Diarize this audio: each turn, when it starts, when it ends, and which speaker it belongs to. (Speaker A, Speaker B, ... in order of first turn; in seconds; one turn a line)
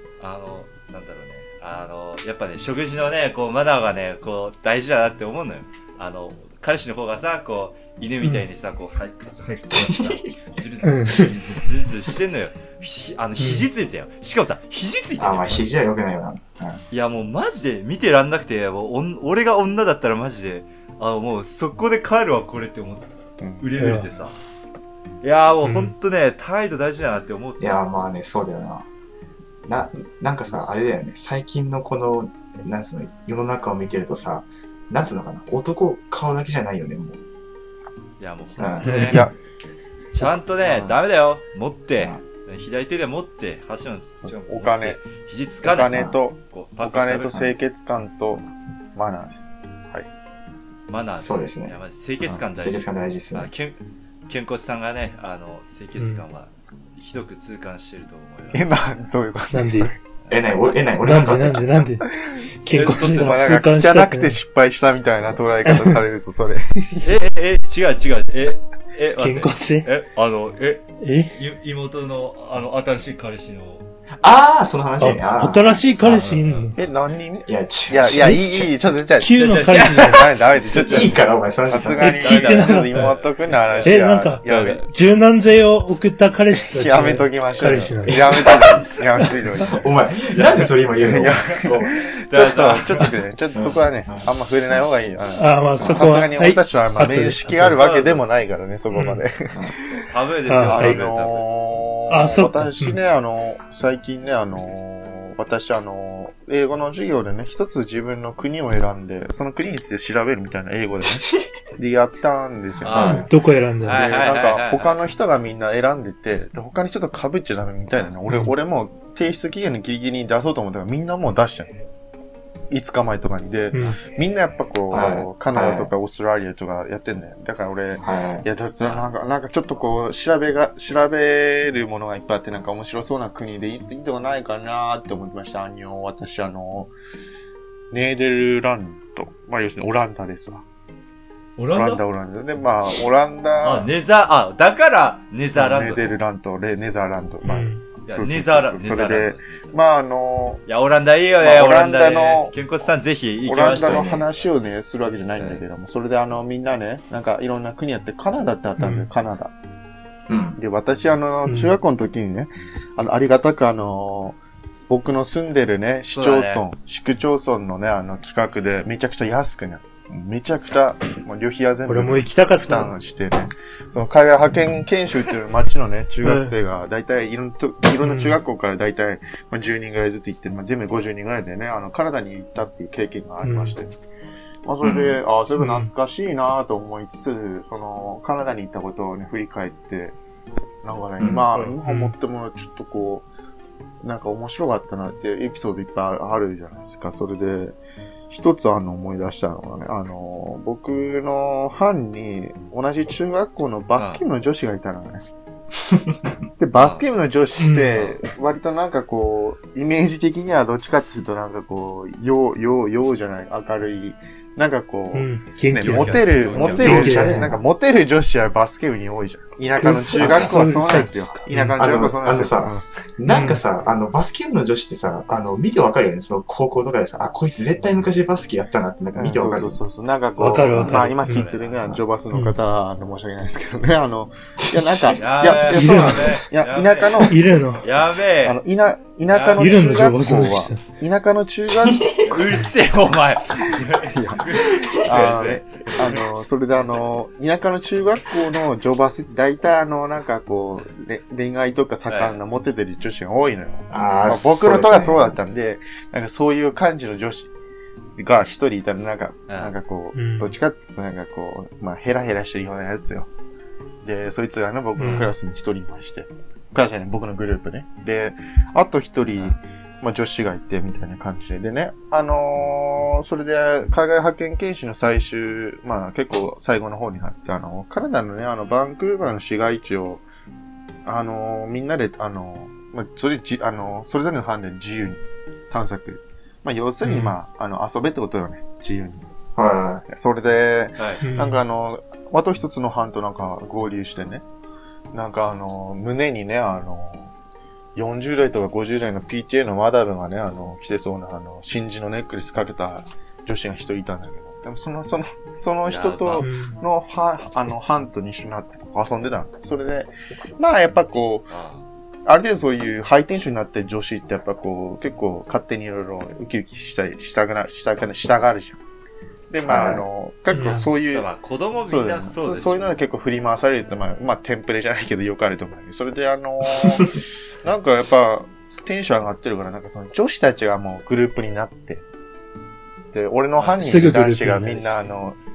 Speaker A: 0.2-15.7
Speaker B: 9.7-10.3
Speaker C: 10.8-11.3
Speaker C: 13.4-13.7
Speaker B: 15.2-16.8
Speaker A: 16.9-23.1
Speaker D: 23.4-23.7
Speaker A: 23.6-24.4
Speaker C: 23.8-24.1
Speaker A: 25.2-27.6
Speaker C: 25.6-25.9
Speaker B: 27.6-28.9
Speaker B: 29.7-37.2
Speaker A: 38.2-39.3
Speaker B: 38.6-39.0
Speaker C: 38.8-39.3
Speaker D: 39.0-39.3
Speaker A: 40.1-47.5
Speaker B: 40.6-40.9
Speaker D: 44.2-45.0
Speaker D: 45.6-48.4
Speaker D: 49.0-50.1
Speaker A: 50.9-58.7
Speaker B: 51.2-51.8
Speaker B: 52.3-53.5
Speaker C: 56.0-56.2
Speaker D: 58.5-60.0
Speaker C: 59.5-60.0
Speaker A: 60.3-60.5
Speaker B: 60.3-61.8
Speaker C: 61.0-62.1
Speaker D: 62.2-67.2
Speaker C: 62.6-64.4
Speaker A: 62.7-63.5
Speaker C: 65.7-66.0
Speaker A: 67.0-73.9
Speaker C: 69.2-69.9
Speaker C: 71.0-71.4
Speaker B: 74.2-76.2
Speaker C: 75.0-76.8
Speaker A: 76.0-76.7
Speaker D: 76.8-84.9
Speaker B: 77.5-78.7
Speaker C: 79.2-80.3
Speaker A: 79.3-81.1
Speaker B: 80.6-82.2
Speaker C: 82.0-83.1
Speaker A: 82.3-84.9
Speaker C: 83.8-88.2
Speaker D: 86.7-89.8
Speaker B: 88.1-88.8
Speaker A: 88.5-89.8
Speaker B: 89.7-91.9
Speaker A: 90.3-93.1
Speaker D: 91.0-100.1
Speaker B: 93.5-94.9
Speaker C: 95.4-97.8
Speaker A: 97.7-98.3
Speaker A: 100.0-101.5
Speaker C: 100.5-101.0
Speaker D: 100.6-113.3
Speaker C: 102.1-103.0
Speaker A: 112.8-113.3
Speaker B: 112.9-113.3
Speaker C: 113.3-114.1
Speaker A: 113.8-115.0
Speaker D: 113.9-121.7
Speaker C: 118.3-118.5
Speaker D: 122.7-136.9
Speaker C: 123.7-124.0
Speaker B: 124.9-125.9
Speaker B: 128.0-128.5
Speaker A: 128.8-129.1
Speaker D: 137.9-140.6
Speaker A: 141.6-142.0
Speaker D: 141.7-143.9
Speaker A: 143.6-146.1
Speaker D: 145.6-150.6
Speaker C: 147.4-147.8
Speaker A: 148.1-149.8
Speaker A: 150.7-154.5
Speaker D: 151.4-152.5
Speaker D: 153.4-159.5
Speaker B: 153.7-154.2
Speaker A: 155.4-155.6
Speaker C: 158.8-159.1
Speaker B: 160.3-160.6
Speaker D: 160.6-164.4
Speaker C: 161.5-161.8
Speaker D: 164.9-184.0
Speaker A: 166.1-166.6
Speaker C: 171.9-172.9
Speaker C: 176.2-176.5
Speaker C: 178.0-178.4
Speaker C: 183.4-183.7
Speaker D: 184.7-190.2
Speaker B: 184.8-185.2
Speaker C: 185.6-185.9
Speaker D: 190.8-193.3
Speaker B: 191.2-191.4
Speaker C: 191.8-192.1
Speaker D: 194.0-197.8
Speaker D: 198.3-205.2
Speaker A: 204.0-204.2
Speaker B: 205.8-206.2
Speaker D: 206.6-222.9
Speaker A: 206.8-207.1
Speaker C: 207.6-208.0
Speaker C: 215.1-217.6
Speaker A: 215.8-217.2
Speaker B: 216.5-217.6
Speaker C: 219.8-221.8
Speaker B: 220.1-220.6
Speaker B: 221.8-229.8
Speaker C: 223.3-223.6
Speaker D: 229.1-237.5
Speaker C: 230.4-231.4
Speaker A: 230.8-232.0
Speaker B: 234.6-235.2
Speaker A: 235.1-238.6
Speaker C: 235.7-236.3
Speaker C: 237.3-237.8
Speaker D: 238.4-242.6
Speaker A: 239.3-239.8
Speaker C: 239.6-240.8
Speaker B: 241.8-242.3
Speaker A: 242.2-246.2
Speaker D: 243.6-257.5
Speaker A: 252.1-252.4
Speaker B: 253.9-255.4
Speaker D: 258.2-263.3
Speaker A: 259.5-259.7
Speaker C: 260.1-260.5
Speaker D: 264.0-280.2
Speaker C: 265.0-265.3
Speaker D: 281.1-289.3
Speaker C: 287.0-287.3
Speaker B: 289.6-290.1
Speaker D: 290.1-294.4
Speaker C: 291.2-291.6
Speaker D: 295.1-297.3
Speaker D: 297.9-311.5
Speaker A: 305.9-306.5
Speaker C: 306.4-306.8
Speaker A: 311.5-311.8
Speaker D: 312.2-318.8
Speaker D: 319.5-321.3
Speaker B: 319.7-320.0
Speaker C: 320.5-320.9
Speaker A: 320.7-323.0
Speaker D: 321.9-332.0
Speaker D: 333.1-335.4
Speaker C: 333.8-334.8